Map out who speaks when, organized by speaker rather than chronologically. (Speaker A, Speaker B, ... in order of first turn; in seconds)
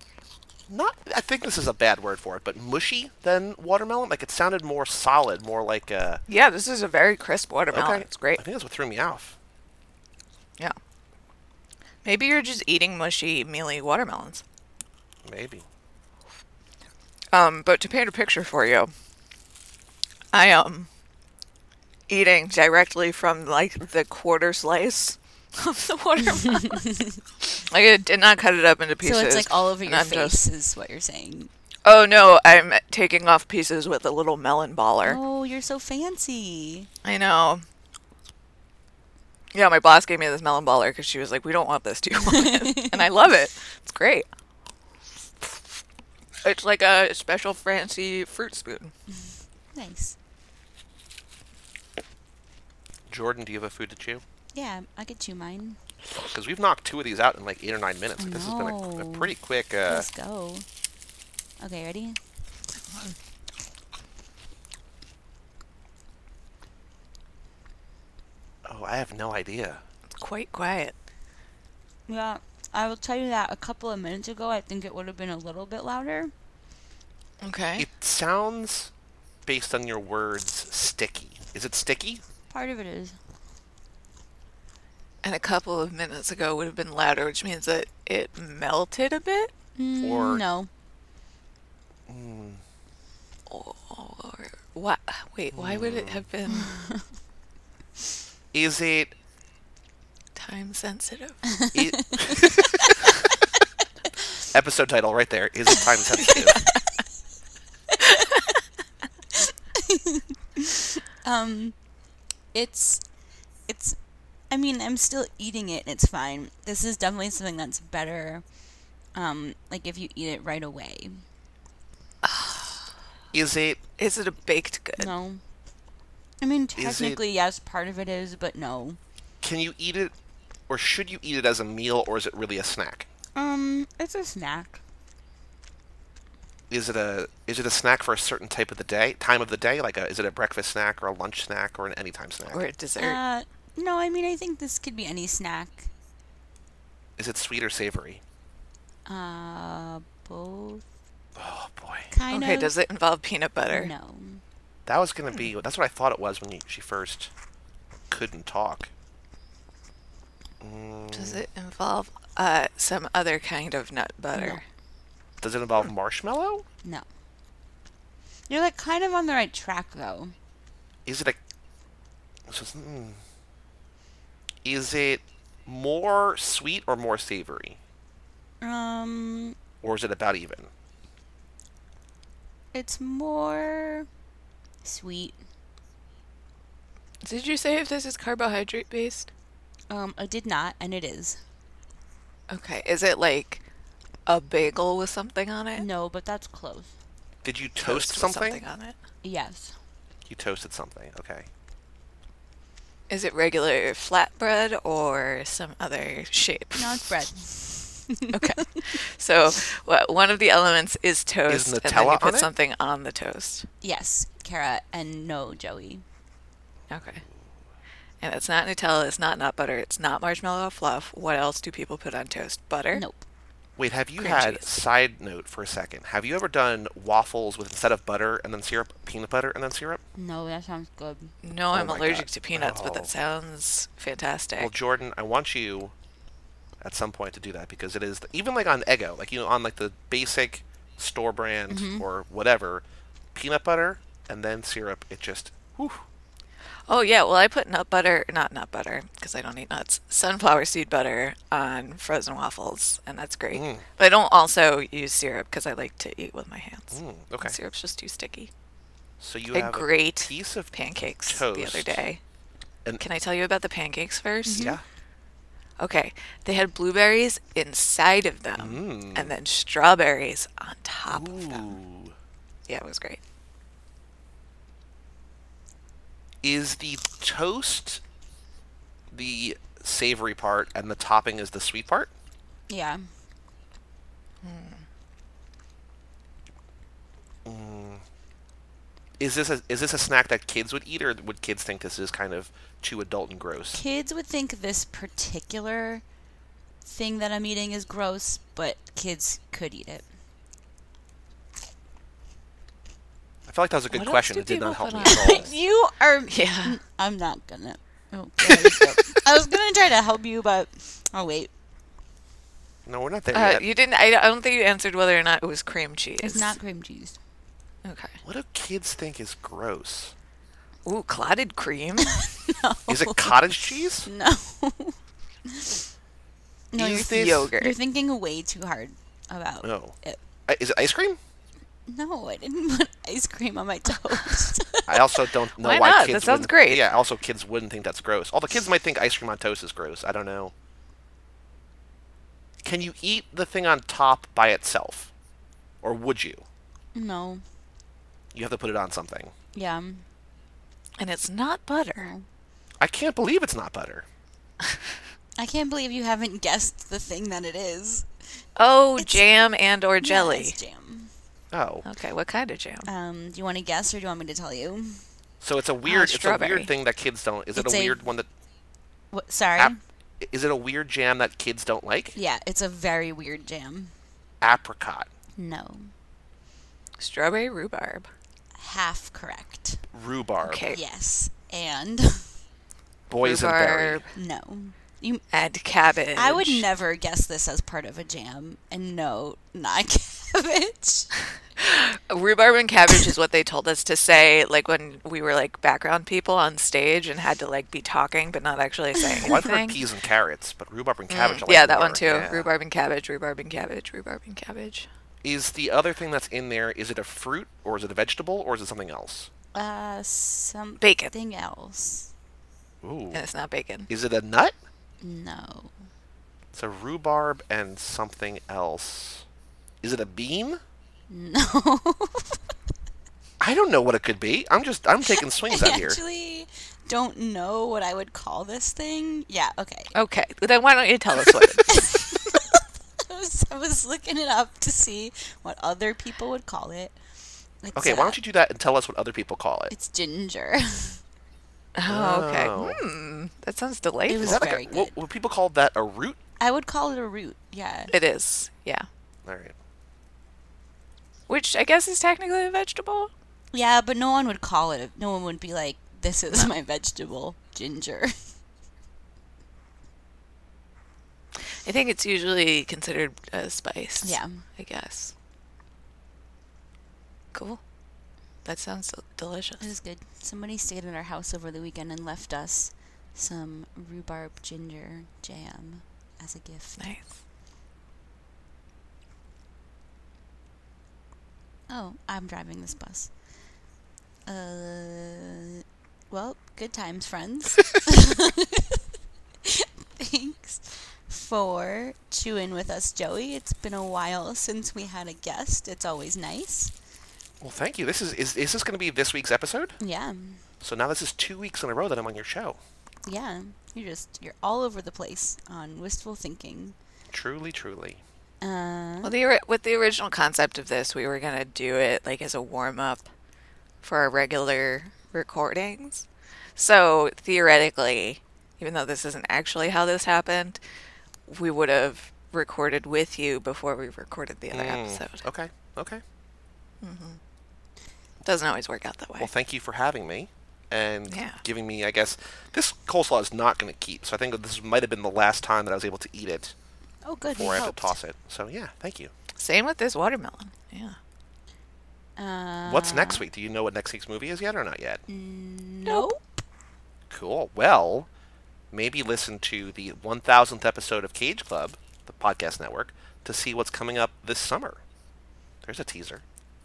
Speaker A: 0.7-6.2, 7.7-9.3, 15.2-15.6, 53.1-54.2, 56.3-60.1, 68.6-69.8, 77.8-78.9, 79.5-82.2, 90.0-90.4, 92.1-92.6, 95.5-96.3, 98.5-99.1, 101.7-102.5, 104.5-106.6, 123.3-123.8, 126.7-127.2, 129.4-130.1, 130.7-133.1, 136.7-142.7, 147.2-148.2, 151.3-152.1, 154.8-157.3, 158.1-158.9, 160.6-161.4, 165.4-166.6, 171.1-171.4, 172.5-173.2, 174.6-177.8, 179.8-180.7, 197.4-198.6, 200.3-201.5, 211.5-212.5, 223.8-230.0, 231.7-233.1, 234.6-235.9, 236.8-242.8, 243.3-246.0, 253.5-253.9, 256.9-257.6, 259.2-262.0, 264.5-264.8, 268.6-269.3, 271.1-272.1, 276.4-278.0, 279.1-282.1, 287.4-288.0, 289.2-293.8, 303.5-305.5, 312.9-313.6, 318.2-320.1, 322.9-324.1, 326.8-327.5, 329.6-329.9, 330.5-331.2, 334.9-340.5, 342.6-345.1, 345.8-346.4, 348.3-349.3, 352.8-354.0, 361.5-361.8, 365.4-368.3, 369.6-372.1, 374.4-375.1, 379.9-380.6, 383.1-384.0, 399.2-402.5, 405.2-409.3, 412.8-413.2, 413.9-414.5, 416.5-419.2, 419.8-420.6, 423.4-426.0, 437.8-439.7, 441.9-442.8, 444.2-446.2, 449.2-449.5, 497.4-499.8, 500.6-502.6, 507.1-508.0, 524.5-526.0, 529.2-536.5, 537.2-539.1, 542.6-545.0, 547.1-548.1, 548.7-554.8, 555.6-556.2
Speaker B: 6.3-8.4, 12.0-14.4, 17.3-18.9, 20.3-20.9, 22.1-26.9, 27.5-30.4, 31.8-35.2, 37.0-37.6, 39.5-44.2, 46.4-48.9, 62.8-63.1, 70.2-70.9, 77.4-77.8, 85.2-89.5, 93.5-96.7, 100.3-101.4, 106.2-106.7, 122.2-122.9, 124.0-125.1, 142.5-143.2, 152.3-153.9, 161.1-164.6, 187.2-189.3, 192.5-193.6, 194.2-195.8, 197.8-198.9, 203.1-207.2, 208.3-213.7, 216.9-217.2, 218.2-223.0, 224.2-224.7, 231.4-234.7, 246.9-258.5, 259.5-262.2, 263.0-264.8, 265.8-271.8, 272.7-273.2, 284.4-284.8, 303.9-305.5, 306.3-306.8, 308.4-309.2, 313.3-316.6, 317.8-318.2, 320.9-322.3, 327.1-327.8, 335.6-336.9, 351.0-352.1, 358.6-360.5, 361.8-362.9, 365.8-366.7, 377.0-378.1, 380.4-380.8, 383.2-384.1, 385.3-386.7, 391.6-399.8, 401.1-404.9, 410.8-411.1, 413.1-413.9, 429.9-431.8, 441.8-444.4, 447.9-448.9, 451.3-453.1, 456.3-456.5, 461.6-465.1, 467.3-467.6, 468.4-469.6, 476.8-477.1, 509.0-513.1, 513.8-520.6, 521.3-525.2, 526.8-527.2, 528.2-529.3, 531.1-531.4, 539.4-541.0, 545.8-546.1
Speaker C: 26.4-27.2, 29.0-31.5, 35.0-36.9, 42.2-43.0, 49.7-50.1, 54.5-55.8, 58.2-60.6, 61.6-62.2, 72.1-76.3, 82.5-83.2, 89.7-90.7, 96.5-97.0, 101.5-102.9, 109.3-111.7, 112.5-113.0, 113.7-114.0, 114.5-118.4, 119.1-121.2, 125.0-125.4, 126.4-129.0, 133.3-134.8, 142.9-145.9, 149.1-150.8, 152.1-152.7, 153.7-154.4, 164.3-164.6, 168.5-170.3, 178.6-179.6, 182.7-184.1, 184.8-185.4, 189.9-191.4, 195.7-196.9, 199.2-199.7, 206.7-208.8, 213.8-216.0, 222.9-223.2, 230.2-231.3, 241.7-242.1, 282.7-283.0, 293.7-296.0, 296.8-300.0, 305.0-311.5, 316.2-317.2, 322.0-325.9, 326.7-330.2, 331.9-335.3, 346.9-347.4, 349.5-350.0, 351.9-352.2, 355.4-358.1, 359.0-359.2, 360.0-361.1, 362.8-365.0, 367.5-368.1, 369.1-369.8, 372.1-373.9, 375.4-375.9, 378.6-379.8, 380.7-382.4, 384.1-385.2, 386.1-391.1, 409.5-412.1, 415.0-415.8, 421.1-422.4, 425.0-429.9, 431.7-437.0, 437.6-438.2, 439.7-441.0, 444.1-445.0, 446.4-447.9, 453.5-458.1, 464.0-464.4, 469.6-476.9, 481.7-483.1, 484.2-488.8, 489.4-496.7, 499.8-500.4, 503.1-506.8, 508.4-509.1, 537.0-538.0, 542.2-543.3, 545.1-546.4